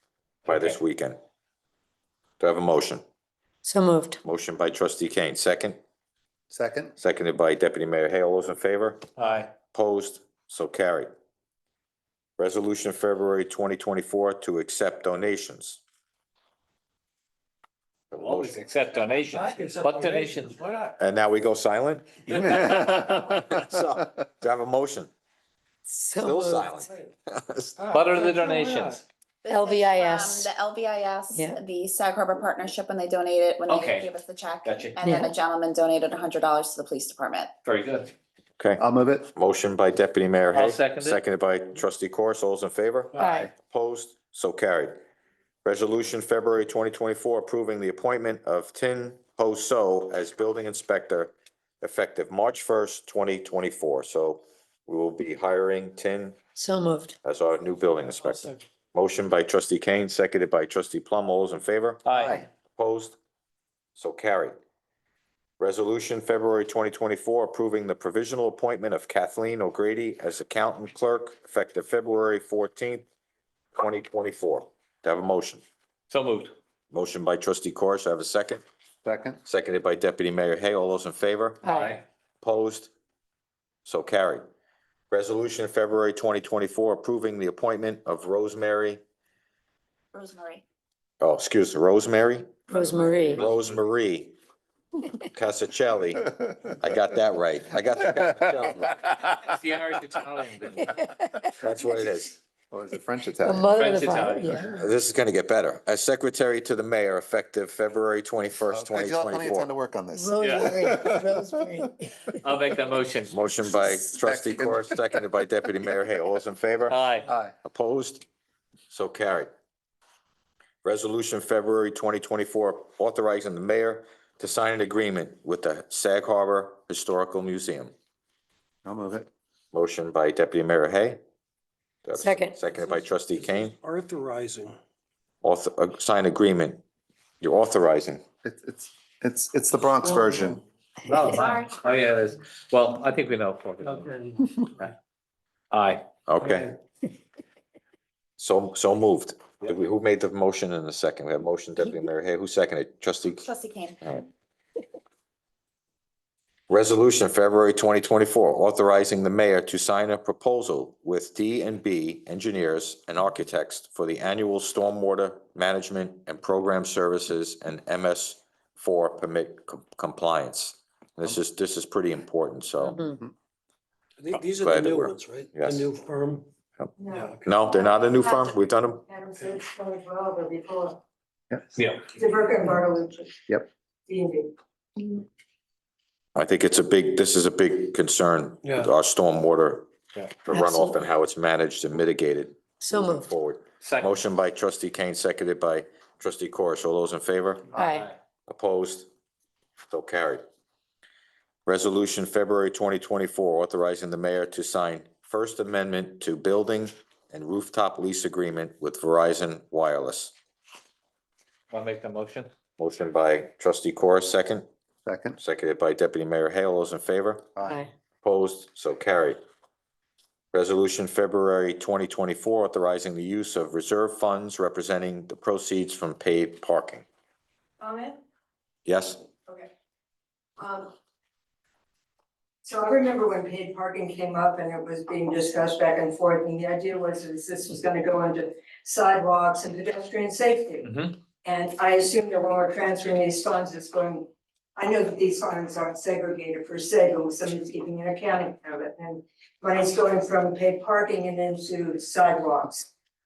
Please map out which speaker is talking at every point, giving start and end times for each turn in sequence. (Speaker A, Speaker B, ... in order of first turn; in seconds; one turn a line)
Speaker A: 0.5-0.8
Speaker B: 0.5-1.2
Speaker B: 2.4-3.0
Speaker C: 3.6-4.2
Speaker B: 4.2-5.8
Speaker D: 6.5-6.9
Speaker B: 7.0-9.1
Speaker A: 9.2-9.5
Speaker B: 9.7-11.1
Speaker B: 12.4-15.8
Speaker B: 18.1-18.6
Speaker A: 18.2-20.6
Speaker B: 21.0-22.4
Speaker A: 22.3-23.6
Speaker B: 23.5-25.1
Speaker C: 25.9-26.9
Speaker B: 26.2-27.8
Speaker A: 27.9-29.0
Speaker C: 28.2-28.5
Speaker E: 29.4-37.5
Speaker C: 29.5-30.5
Speaker C: 31.3-31.6
Speaker A: 33.7-35.0
Speaker C: 35.0-35.3
Speaker A: 37.6-38.1
Speaker D: 38.8-39.3
Speaker B: 39.4-45.0
Speaker A: 40.5-41.2
Speaker C: 43.2-43.5
Speaker D: 43.2-43.5
Speaker B: 45.6-56.4
Speaker C: 56.6-57.2
Speaker B: 57.2-62.0
Speaker A: 62.0-62.4
Speaker D: 62.2-62.5
Speaker B: 62.8-63.2
Speaker B: 64.0-64.6
Speaker B: 65.6-73.1
Speaker B: 73.7-75.6
Speaker A: 76.1-76.5
Speaker B: 76.9-78.6
Speaker D: 79.0-79.4
Speaker B: 79.5-81.6
Speaker C: 81.6-82.0
Speaker A: 81.7-82.0
Speaker B: 82.4-82.9
Speaker B: 83.8-84.4
Speaker B: 85.1-89.0
Speaker E: 90.1-90.6
Speaker B: 91.2-92.5
Speaker C: 92.7-93.4
Speaker A: 93.2-93.6
Speaker B: 93.3-94.3
Speaker B: 95.3-96.3
Speaker B: 96.8-98.9
Speaker A: 99.1-101.0
Speaker C: 100.9-101.5
Speaker B: 101.6-102.4
Speaker D: 102.7-103.7
Speaker C: 103.5-104.7
Speaker A: 103.8-104.8
Speaker B: 104.7-109.7
Speaker D: 108.7-111.7
Speaker C: 110.2-112.4
Speaker A: 110.4-110.8
Speaker A: 112.4-113.3
Speaker B: 113.3-117.0
Speaker D: 114.0-115.2
Speaker A: 116.9-117.3
Speaker D: 117.3-117.5
Speaker B: 117.6-118.2
Speaker B: 118.9-119.5
Speaker B: 120.8-127.9
Speaker D: 128.8-129.3
Speaker B: 129.7-131.2
Speaker B: 132.1-133.8
Speaker C: 132.2-132.6
Speaker F: 133.8-134.8
Speaker B: 135.4-136.8
Speaker B: 137.4-138.2
Speaker D: 138.4-140.6
Speaker A: 141.1-144.1
Speaker A: 145.7-146.0
Speaker B: 146.3-146.8
Speaker B: 148.4-153.5
Speaker E: 153.4-154.0
Speaker B: 156.7-173.0
Speaker C: 172.8-173.2
Speaker F: 174.2-176.4
Speaker B: 174.6-175.9
Speaker G: 177.0-178.5
Speaker F: 177.1-177.4
Speaker B: 177.4-179.0
Speaker G: 179.0-181.0
Speaker G: 182.1-183.4
Speaker G: 184.1-184.6
Speaker B: 186.3-189.9
Speaker F: 188.6-188.9
Speaker B: 190.4-197.7
Speaker C: 190.5-191.0
Speaker C: 192.8-193.3
Speaker A: 193.8-194.2
Speaker C: 197.8-198.1
Speaker B: 198.5-199.1
Speaker B: 199.9-200.4
Speaker B: 201.7-210.3
Speaker A: 211.7-212.5
Speaker B: 212.8-214.7
Speaker D: 215.1-215.4
Speaker B: 215.4-217.5
Speaker D: 217.6-217.8
Speaker C: 217.7-217.9
Speaker B: 218.2-219.4
Speaker B: 220.5-227.1
Speaker G: 227.8-228.2
Speaker B: 228.9-229.2
Speaker G: 230.6-230.9
Speaker G: 232.6-240.9
Speaker A: 240.8-241.2
Speaker G: 241.4-252.9